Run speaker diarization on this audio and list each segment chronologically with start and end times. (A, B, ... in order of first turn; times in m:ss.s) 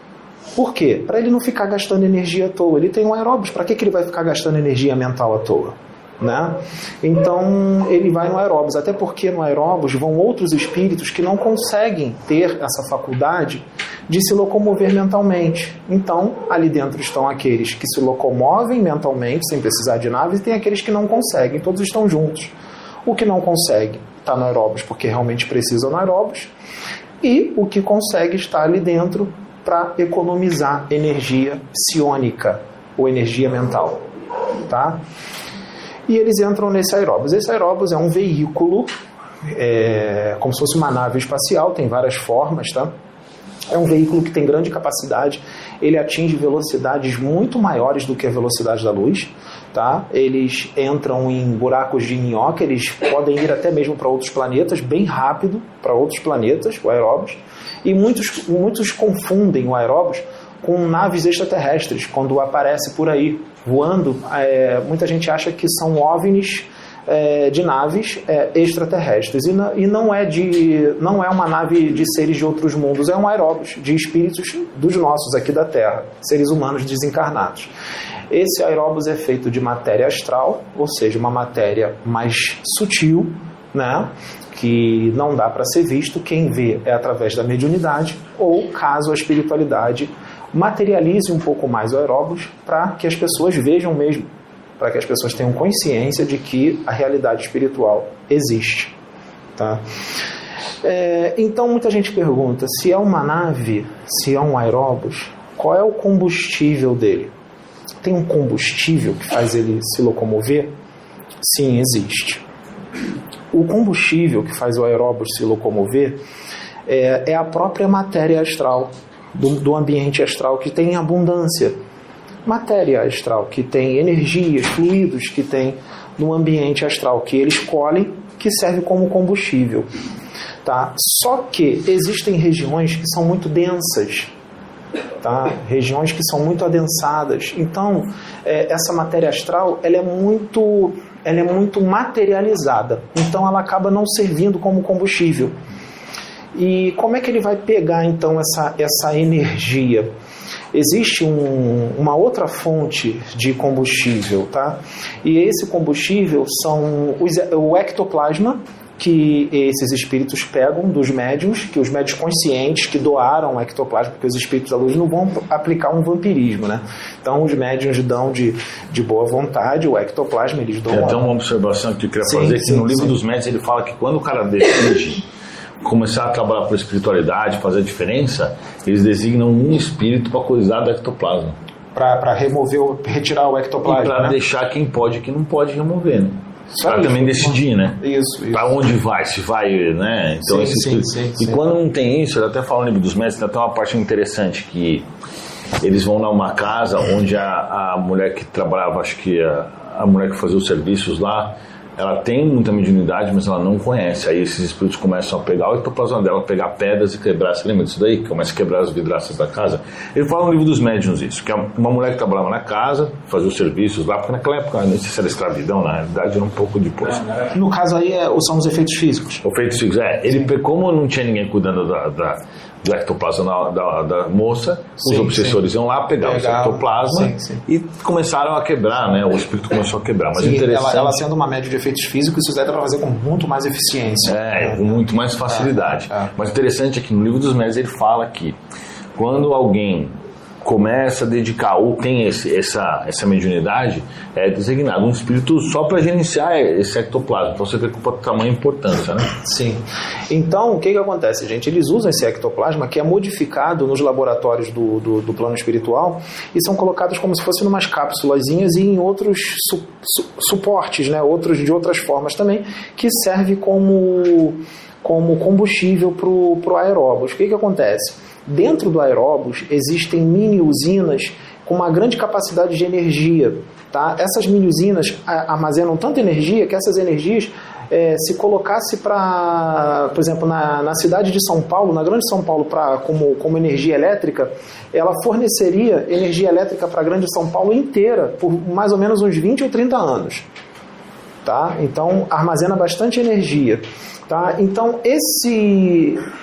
0:00.5-0:22.5 A
0:23.0-0:26.5 A
0:27.2-0:34.0 A
0:34.7-0:35.0 A
0:36.1-0:38.9 A
0:39.5-0:42.9 A
0:43.7-1:17.7 A
1:18.3-1:38.9 A
1:39.6-1:39.8 A
1:40.8-1:47.3 A
1:48.0-1:50.7 A
1:51.4-1:52.4 A
1:53.5-1:56.2 A
1:56.8-2:01.8 A
2:02.4-2:09.9 A
2:10.6-2:14.3 A
2:15.2-2:25.5 A
2:26.5-2:30.1 A
2:30.7-2:51.2 A
2:50.9-2:55.3 B
2:52.2-2:53.2 A
2:55.8-3:01.6 B
3:01.9-3:04.4 A
3:03.8-3:08.0 B
3:06.7-3:08.8 A
3:08.5-3:15.0 B
3:10.4-3:11.7 A
3:15.8-3:37.4 B
3:37.5-3:39.4 A
3:39.4-3:51.2 B
3:45.0-3:45.6 A
3:46.2-3:47.6 A
3:50.3-3:54.9 A
3:54.3-3:58.6 B
3:55.5-3:56.3 A
3:59.1-4:09.3 B
4:09.4-4:50.4 A
4:51.4-4:56.2 A